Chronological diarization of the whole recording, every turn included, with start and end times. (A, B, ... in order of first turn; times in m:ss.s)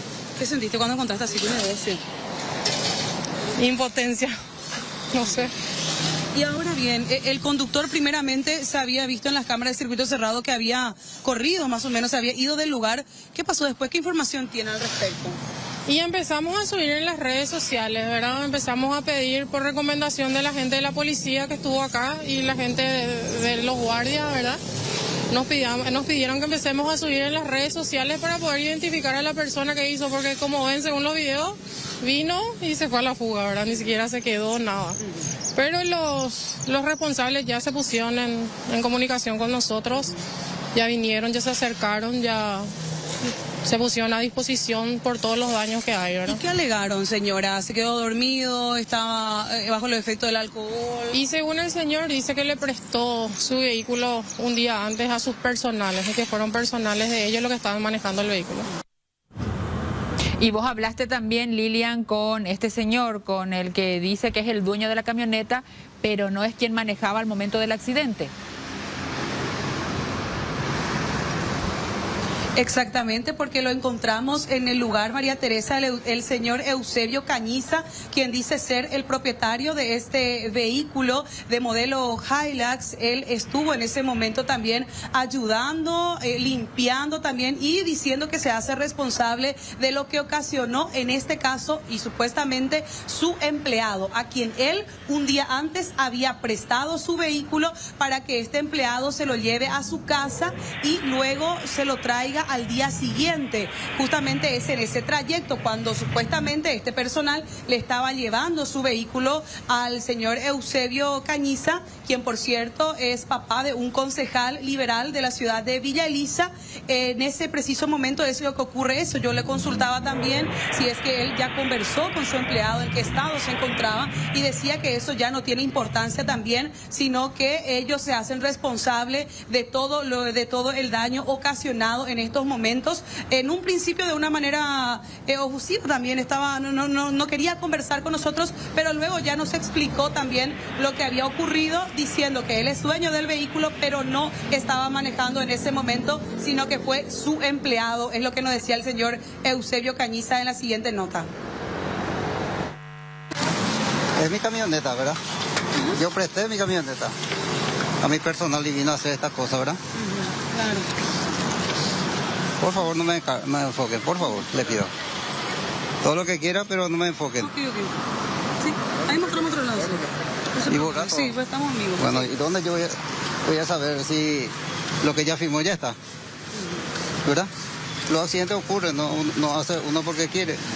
0:00.4-0:02.0 A
0:03.6-0:04.4 B
0:05.1-0:05.5 B
0:06.3-0:15.4 A
0:15.9-0:24.6 B
0:25.3-0:35.0 B
0:35.5-0:40.2 B
0:40.7-0:42.7 B
0:43.6-0:46.4 B
0:46.3-0:51.2 A
0:51.1-0:58.7 B
1:00.4-1:08.3 C
1:12.6-2:31.3 A
2:34.2-2:35.2 D
2:35.9-2:37.2 D
2:38.0-2:39.8 D
2:39.9-2:40.9 A
2:42.6-2:44.9 D
2:46.0-2:47.5 D
2:47.4-2:48.0 A
2:48.6-2:52.3 A
2:50.7-2:51.3 D
2:52.0-2:56.0 D
2:56.6-2:56.8 A
2:58.1-3:00.6 D